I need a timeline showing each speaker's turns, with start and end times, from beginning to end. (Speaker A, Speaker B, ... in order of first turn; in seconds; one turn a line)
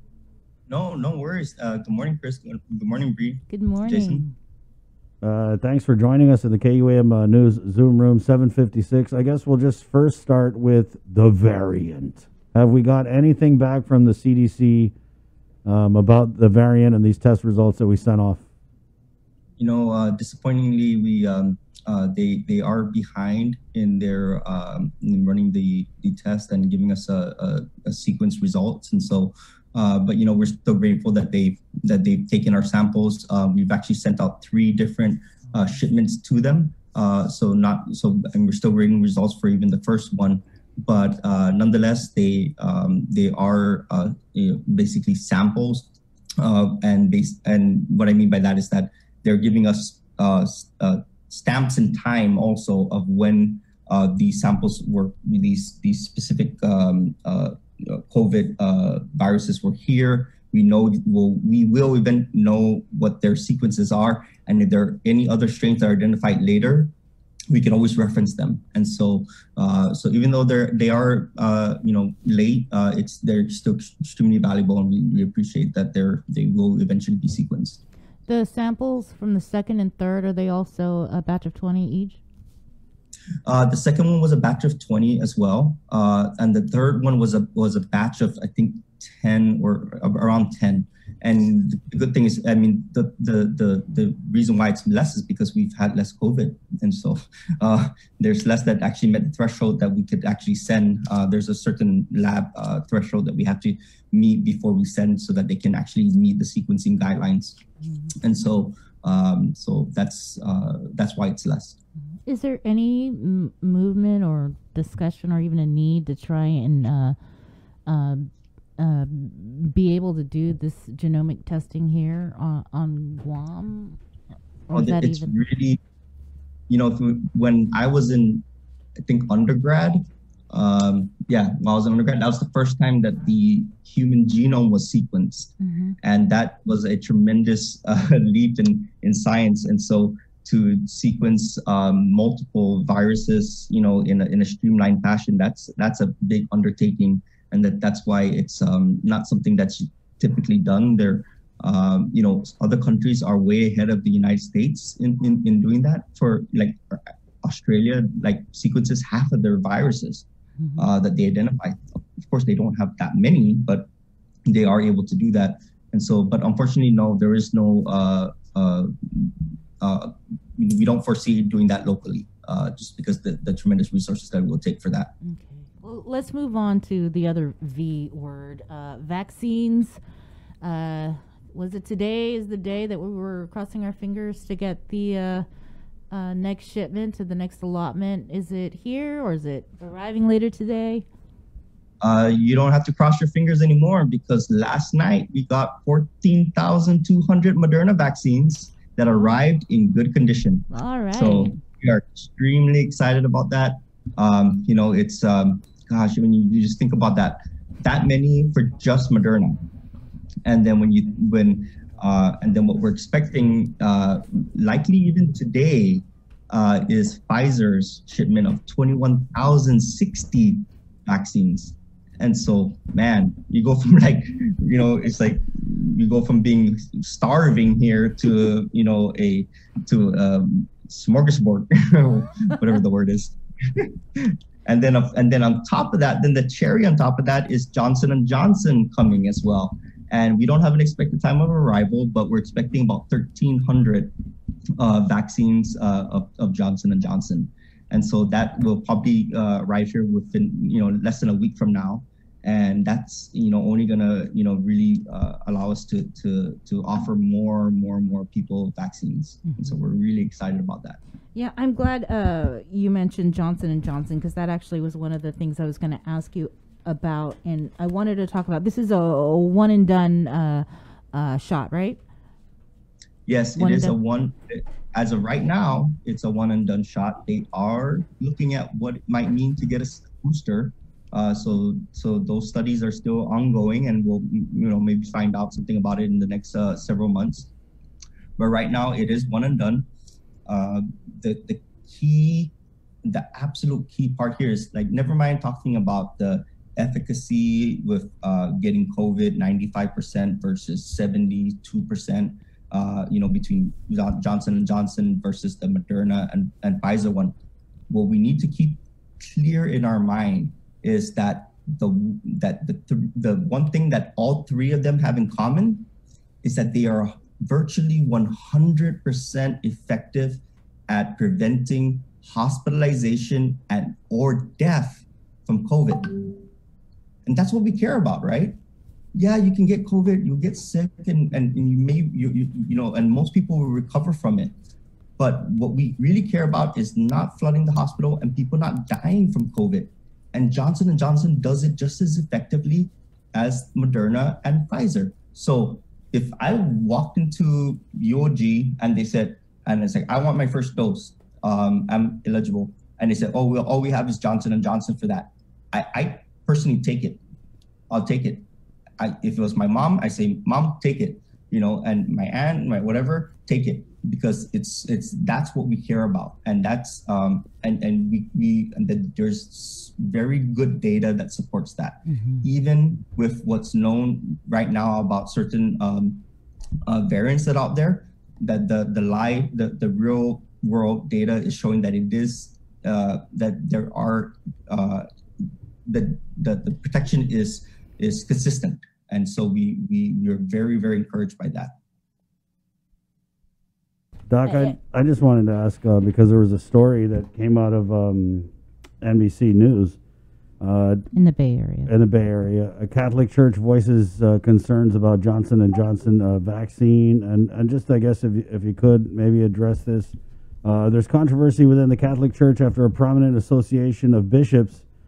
Speaker A: 0.7-4.2
Speaker B: 3.5-4.3
Speaker C: 5.2-14.9
Speaker C: 15.6-18.4
Speaker A: 19.6-66.9
Speaker A: 67.5-77.8
Speaker B: 78.3-82.2
Speaker A: 83.4-107.6
Speaker A: 108.2-111.8
Speaker B: 112.2-117.2
Speaker B: 117.8-124.0
Speaker B: 124.7-125.3
Speaker A: 124.7-125.8
Speaker A: 126.7-128.4
Speaker A: 129.0-160.2
Speaker B: 135.6-136.0
Speaker B: 160.6-160.9
Speaker A: 160.8-163.9
Speaker A: 164.4-175.1
Speaker B: 175.2-180.0
Speaker B: 180.6-185.4
Speaker B: 186.1-191.1
Speaker A: 192.0-209.6
Speaker B: 200.7-201.6
Speaker A: 210.4-244.1
Speaker A: 244.8-261.0
Speaker B: 259.5-259.7
Speaker B: 261.3-272.0
Speaker A: 273.3-287.5
Speaker B: 273.6-273.9
Speaker A: 288.4-289.9
Speaker A: 290.4-292.5
Speaker A: 293.0-307.3
Speaker A: 307.9-315.9
Speaker A: 316.4-326.4
Speaker A: 327.2-328.6
Speaker A: 329.1-334.5
Speaker A: 335.2-357.2
Speaker A: 357.9-358.4
Speaker A: 359.0-376.2
Speaker B: 372.1-372.4
Speaker A: 376.8-385.1
Speaker A: 385.9-391.7
Speaker C: 394.3-398.5
Speaker B: 394.5-394.7
Speaker C: 399.0-400.0
Speaker C: 400.6-401.1
Speaker B: 401.1-401.9
Speaker C: 401.9-414.8